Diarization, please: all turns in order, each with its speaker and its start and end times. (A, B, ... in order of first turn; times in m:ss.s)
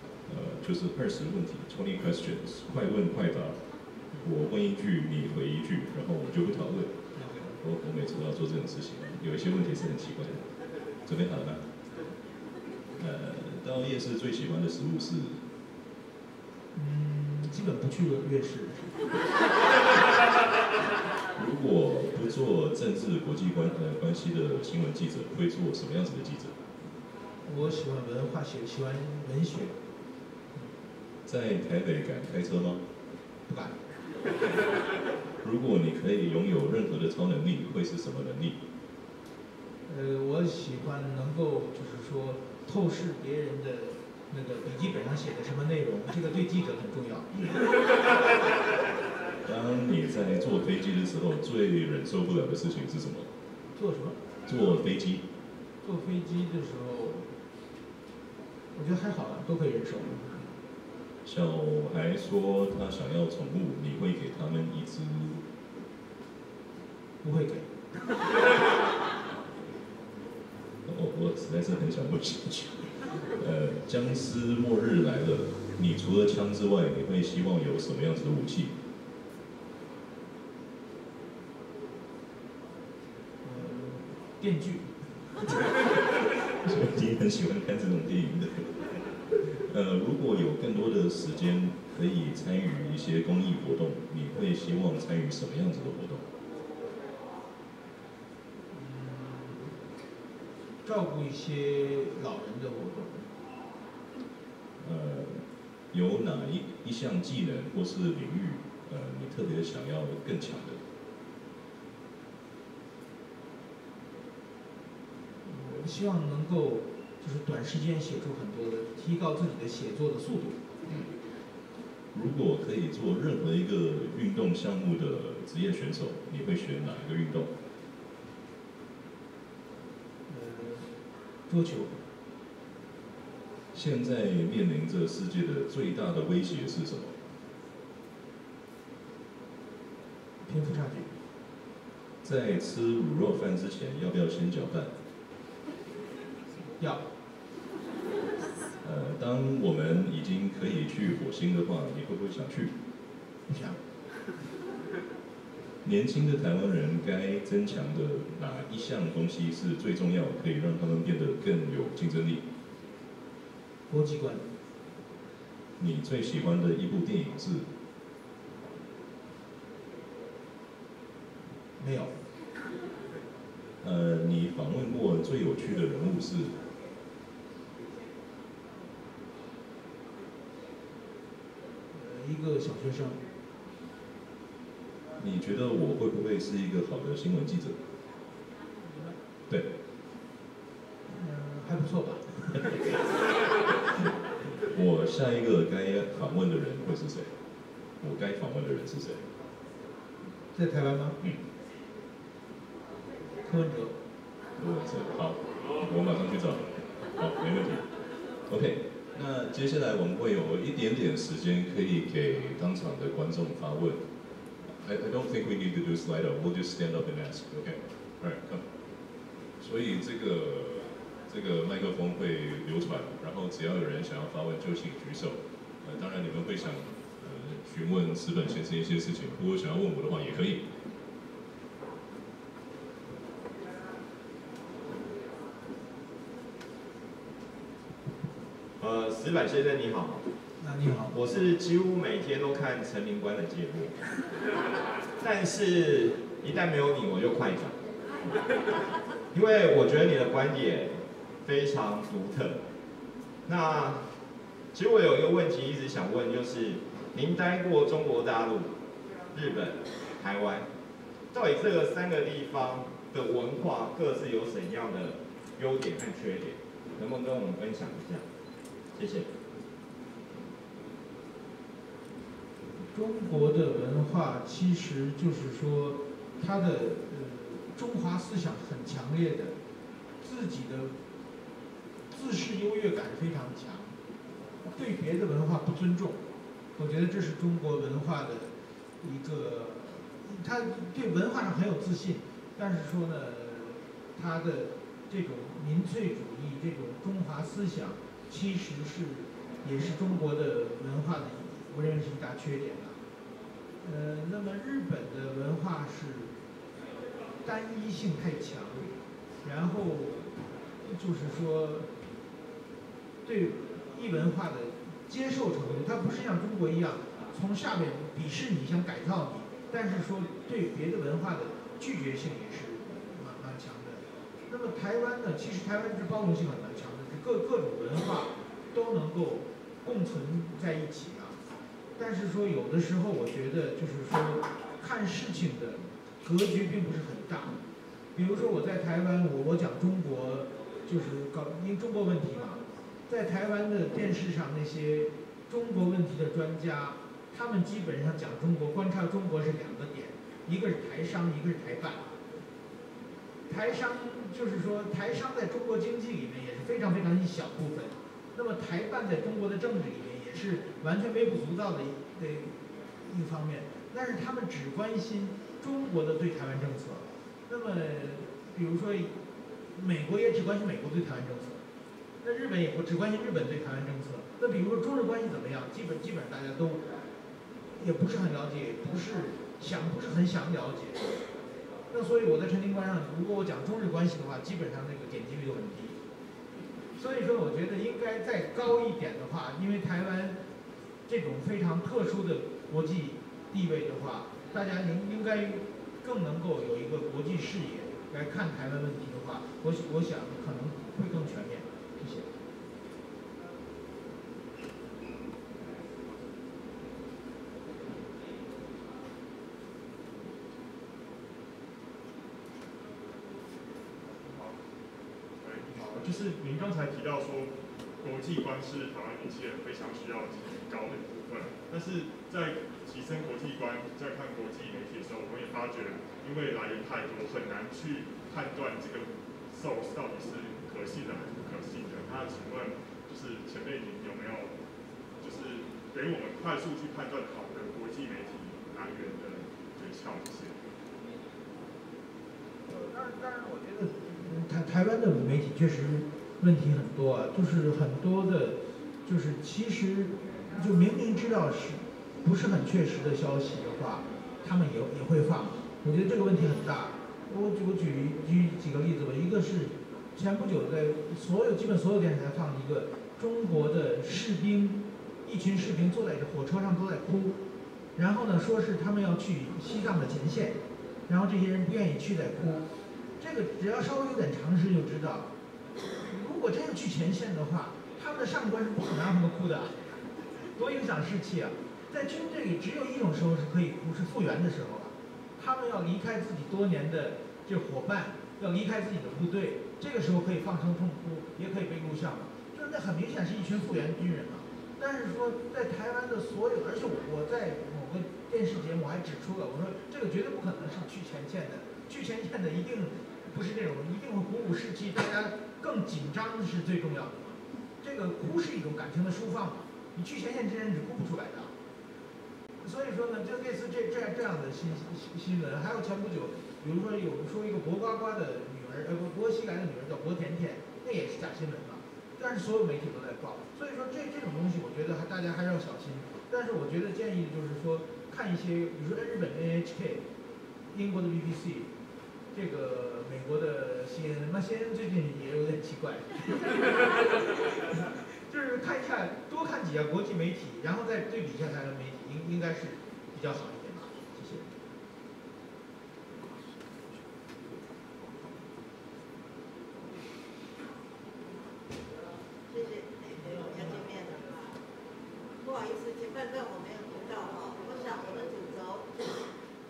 0:00.3-0:03.6 A
0:04.2-0:06.9 A
0:07.2-0:07.6 B
0:07.6-0:10.5 A
0:11.0-0:11.6 A
0:13.0-0:15.4 A
0:16.7-0:19.0 B
0:21.4-0:26.5 A
0:27.4-0:29.8 B
0:31.2-0:32.8 A
0:33.5-0:33.8 B
0:35.4-0:38.6 A
0:39.9-0:47.3 B
0:49.4-0:53.3 A
0:53.8-0:54.2 B
0:54.5-0:55.2 A
0:55.8-0:57.3 B
0:58.7-1:00.4 B
1:01.2-1:05.4 A
1:07.2-1:07.7 B
1:10.8-1:18.8 A
1:23.4-1:25.5 B
1:26.6-1:36.2 A
1:38.7-1:39.8 B
1:40.8-1:43.4 B
1:44.8-1:50.8 A
1:55.4-2:00.6 B
2:02.1-2:07.5 A
2:10.3-2:12.1 B
2:13.7-2:17.2 A
2:20.4-2:21.1 B
2:22.2-2:24.9 A
2:26.8-2:27.0 B
2:28.8-2:32.7 A
2:33.5-2:33.8 B
2:35.8-2:42.4 A
2:43.9-2:44.5 B
2:45.8-2:47.7 A
2:51.8-2:52.1 B
2:53.8-2:56.6 A
3:01.9-3:03.2 B
3:05.2-3:07.8 A
3:08.9-3:09.1 B
3:11.0-3:12.8 B
3:14.6-3:17.3 A
3:18.0-3:19.2 A
3:20.5-3:21.2 B
3:23.4-3:24.0 B
3:24.6-3:27.9 A
3:28.5-3:34.0 A
3:34.6-3:38.6 A
3:39.6-3:50.7 A
3:58.8-4:00.2 C
4:00.6-4:01.2 B
4:01.1-4:04.0 C
4:05.2-4:07.8 C
4:09.3-4:12.6 C
4:13.4-4:14.0 C
4:14.7-4:18.7 C
4:19.3-4:20.7 C
4:21.3-4:28.2 C
4:28.9-4:29.3 C
4:32.9-4:39.6 B
4:40.2-4:40.9 B
4:42.1-4:44.0 B
4:44.6-4:46.2 B
4:46.8-5:03.0 B
5:03.8-5:06.3 B
5:07.4-5:08.9 B
5:09.4-5:11.9 B
5:13.2-5:31.4 B
5:32.0-5:37.6 B
5:38.1-5:52.1 B
5:53.5-6:09.2 B
6:09.7-6:11.6 B
6:12.2-6:16.8 B
6:17.8-6:21.2 B
6:21.9-6:26.0 B
6:27.0-6:30.4 B
6:31.0-6:42.3 B
6:54.1-6:54.6 D
6:55.4-6:57.5 D
6:58.0-7:14.5 D
7:15.2-7:20.6 D
7:22.7-7:47.4 B
7:48.0-7:52.7 B
7:53.2-7:55.3 B
7:56.0-7:59.8 B
8:00.5-8:31.5 B
8:32.6-8:50.1 B
8:50.7-8:51.7 B
8:52.3-9:04.5 B
9:12.5-9:14.6 E
9:15.4-9:19.0 E